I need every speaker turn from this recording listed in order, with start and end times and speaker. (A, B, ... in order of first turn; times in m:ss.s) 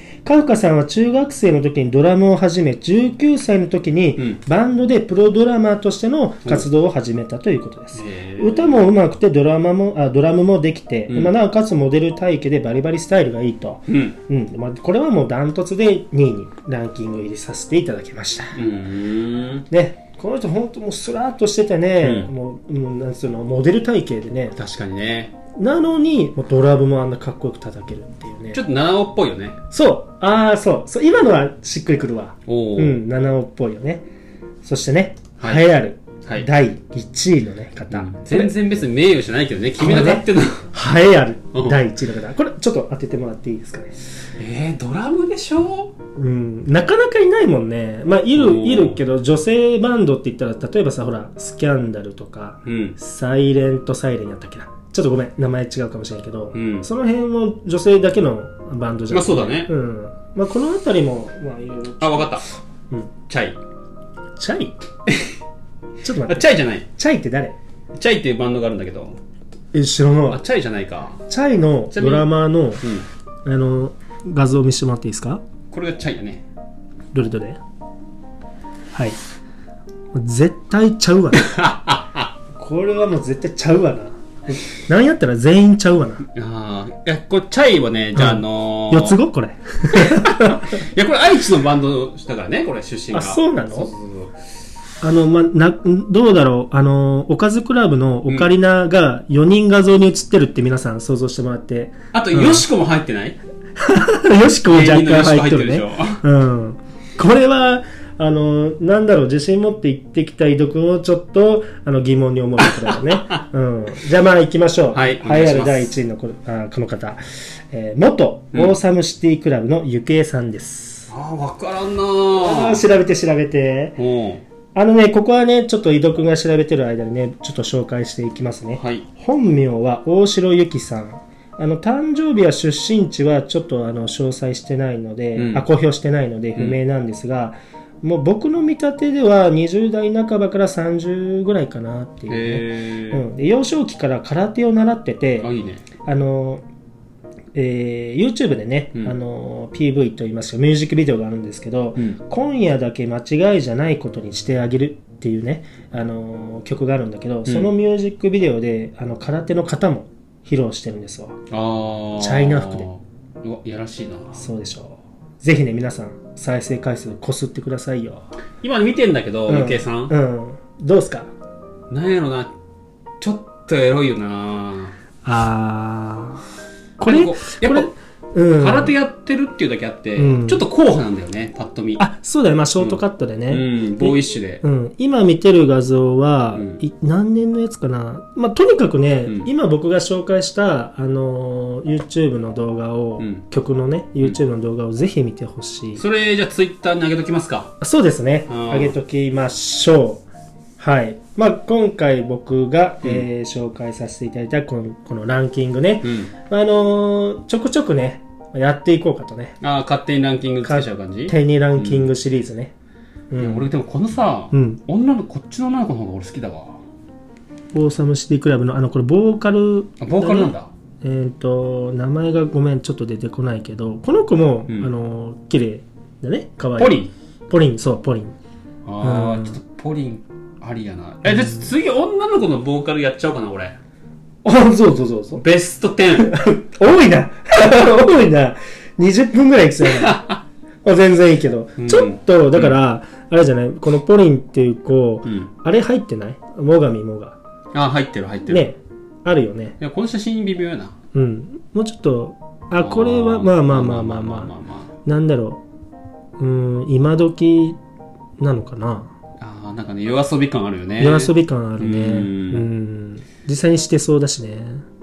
0:00.2-0:18.6 A
0:07.9-0:08.9 B
0:11.1-0:11.3 B
0:13.9-0:14.2 B
0:18.6-0:19.7 B
0:19.7-0:24.6 A
0:22.0-0:22.3 B
0:24.6-0:25.3 B
0:25.6-0:28.6 A
0:28.5-0:29.6 B
0:29.7-0:34.0 A
0:32.5-0:33.0 B
0:34.6-0:38.6 A
0:35.4-0:35.7 B
0:37.9-0:40.7 B
0:39.8-0:43.9 A
0:41.5-0:41.8 B
0:44.4-0:45.9 B
0:46.2-1:03.1 A
0:48.4-0:49.0 B
0:52.6-0:53.0 B
0:56.5-0:56.9 B
0:59.1-0:59.7 B
1:02.0-1:02.5 B
1:03.3-1:03.6 B
1:04.4-1:04.7 A
1:06.0-1:07.6 A
1:06.2-1:06.9 B
1:08.0-1:09.2 B
1:09.7-1:10.4 A
1:10.3-1:11.2 B
1:11.3-1:12.8 A
1:11.9-1:12.3 B
1:13.5-1:15.4 A
1:15.7-1:16.4 B
1:17.1-1:17.6 A
1:20.1-1:21.4 A
1:21.3-1:22.3 B
1:22.6-1:26.2 A
1:26.3-1:29.2 B
1:28.2-1:30.7 A
1:29.9-1:34.3 B
1:33.1-1:33.9 A
1:35.0-1:42.7 A
1:42.1-1:43.4 B
1:43.8-1:57.2 A
1:44.7-1:46.2 B
1:52.7-1:53.4 B
1:54.9-1:55.9 B
1:57.7-2:01.1 A
2:01.1-2:02.8 B
2:02.4-2:04.0 A
2:04.0-2:04.4 B
2:04.7-2:25.5 A
2:08.8-2:09.0 B
2:15.4-2:15.7 B
2:22.3-2:23.2 B
2:25.4-2:25.8 B
2:26.1-2:26.6 A
2:27.5-2:41.4 A
2:37.5-2:37.7 B
2:41.5-2:44.5 B
2:42.2-2:42.9 A
2:44.4-2:48.3 A
2:48.6-2:50.1 B
2:49.5-2:51.3 A
2:51.9-2:52.5 B
2:53.2-2:55.0 B
2:55.2-2:56.4 A
2:57.0-2:59.0 A
2:57.0-2:57.9 B
2:58.6-3:02.0 B
3:00.2-3:00.6 A
3:02.0-3:16.0 A
3:02.8-3:04.6 B
3:06.5-3:06.8 B
3:16.0-3:17.7 B
3:17.8-3:20.2 A
3:18.5-3:19.0 B
3:20.8-3:29.6 A
3:26.0-3:26.3 B
3:29.6-3:32.1 B
3:30.6-3:32.7 A
3:33.3-3:33.7 A
3:33.4-3:36.8 B
3:34.5-3:34.8 A
3:37.7-3:48.4 A
3:40.0-3:40.7 B
3:46.8-3:47.1 B
3:48.8-3:53.8 B
3:49.0-3:49.6 A
3:54.4-3:55.4 A
3:55.4-3:56.3 B
3:56.2-4:00.2 A
4:00.0-4:00.4 B
4:00.8-4:07.4 A
4:01.8-4:02.7 B
4:05.3-4:05.5 B
4:07.7-4:08.7 B
4:08.5-4:09.8 A
4:09.8-4:11.0 B
4:11.1-4:14.5 A
4:12.8-4:14.9 B
4:15.1-4:15.6 A
4:16.4-4:17.8 A
4:18.4-4:19.1 A
4:19.4-4:22.7 B
4:21.0-4:24.8 A